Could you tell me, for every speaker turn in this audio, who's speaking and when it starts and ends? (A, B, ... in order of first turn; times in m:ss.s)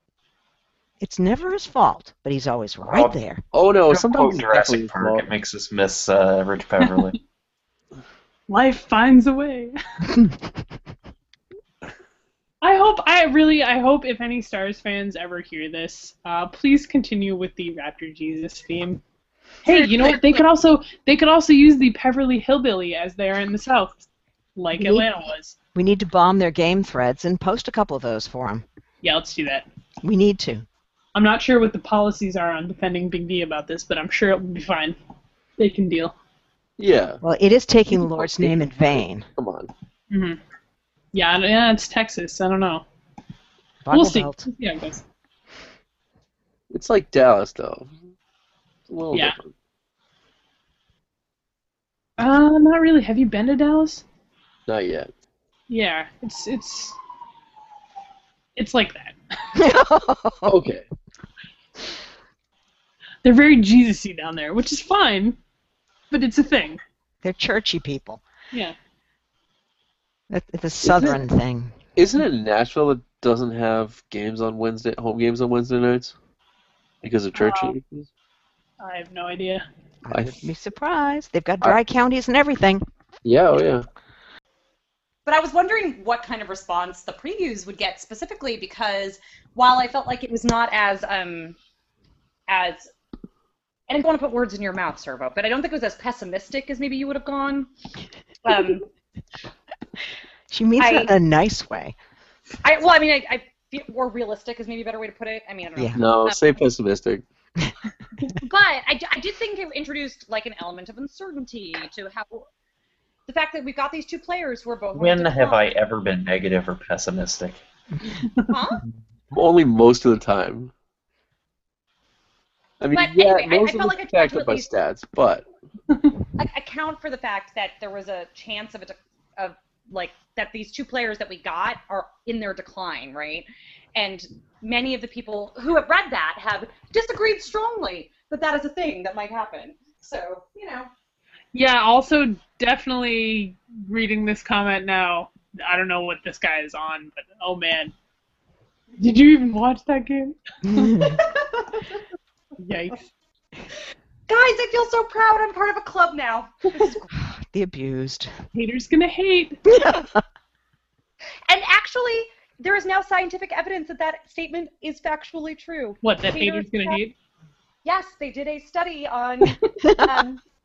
0:01.0-0:03.4 A
0:02.8-0:03.2 B
0:03.5-0:05.2 C
0:03.9-0:07.2 B
0:08.5-0:09.7 D
0:12.6-0:19.0 D
0:19.6-0:25.5 D
0:19.7-0:20.4 E
0:24.7-0:25.1 A
0:25.7-0:28.6 A
0:29.0-0:29.6 D
0:30.0-0:30.6 A
0:31.1-0:35.0 D
0:35.6-0:36.1 D
0:36.8-0:37.2 C
0:37.2-0:39.2 A
0:37.9-0:39.7 C
0:40.1-0:40.4 D
0:41.1-0:42.8 D
0:43.8-0:44.4 A
0:43.9-0:45.0 D
0:46.7-0:47.9 C
0:48.9-0:49.5 C
0:52.2-0:54.0 D
0:54.7-0:55.1 C
0:55.7-0:57.0 D
0:58.6-0:59.2 D
0:59.5-1:00.6 A
1:00.4-1:00.8 C
1:03.2-1:05.4 D
1:06.1-1:06.8 D
1:07.2-1:08.2 A
1:10.3-1:11.8 A
1:10.8-1:11.2 C
1:12.0-1:16.1 C
1:17.0-1:18.1 C
1:17.3-1:17.7 D
1:18.8-1:19.6 D
1:20.0-1:22.8 A
1:20.1-1:20.4 C
1:23.2-1:23.8 C
1:25.2-1:31.6 E
1:32.5-1:32.9 E
1:33.9-1:37.7 E
1:38.4-1:38.8 E
1:40.5-1:41.9 A
1:40.8-1:41.1 E
1:42.6-1:46.5 E
1:45.8-1:46.0 A
1:46.0-1:47.2 C
1:48.4-1:52.5 E
1:53.3-1:55.7 E
1:55.0-1:57.6 B
1:58.5-1:58.8 E
1:59.3-2:00.7 C
2:02.8-2:05.4 C
2:02.9-2:04.7 E
2:06.4-2:20.9 E
2:21.5-2:27.9 D
2:29.0-2:31.1 D
2:30.6-2:31.2 A
2:31.1-2:31.8 E
2:32.6-2:33.1 D
2:34.3-2:37.0 E
2:37.1-2:38.3 A
2:38.5-2:39.6 D
2:39.7-2:40.2 A
2:41.5-2:47.0 E
2:46.0-2:47.1 D
2:47.8-2:50.4 E
2:49.8-2:50.1 A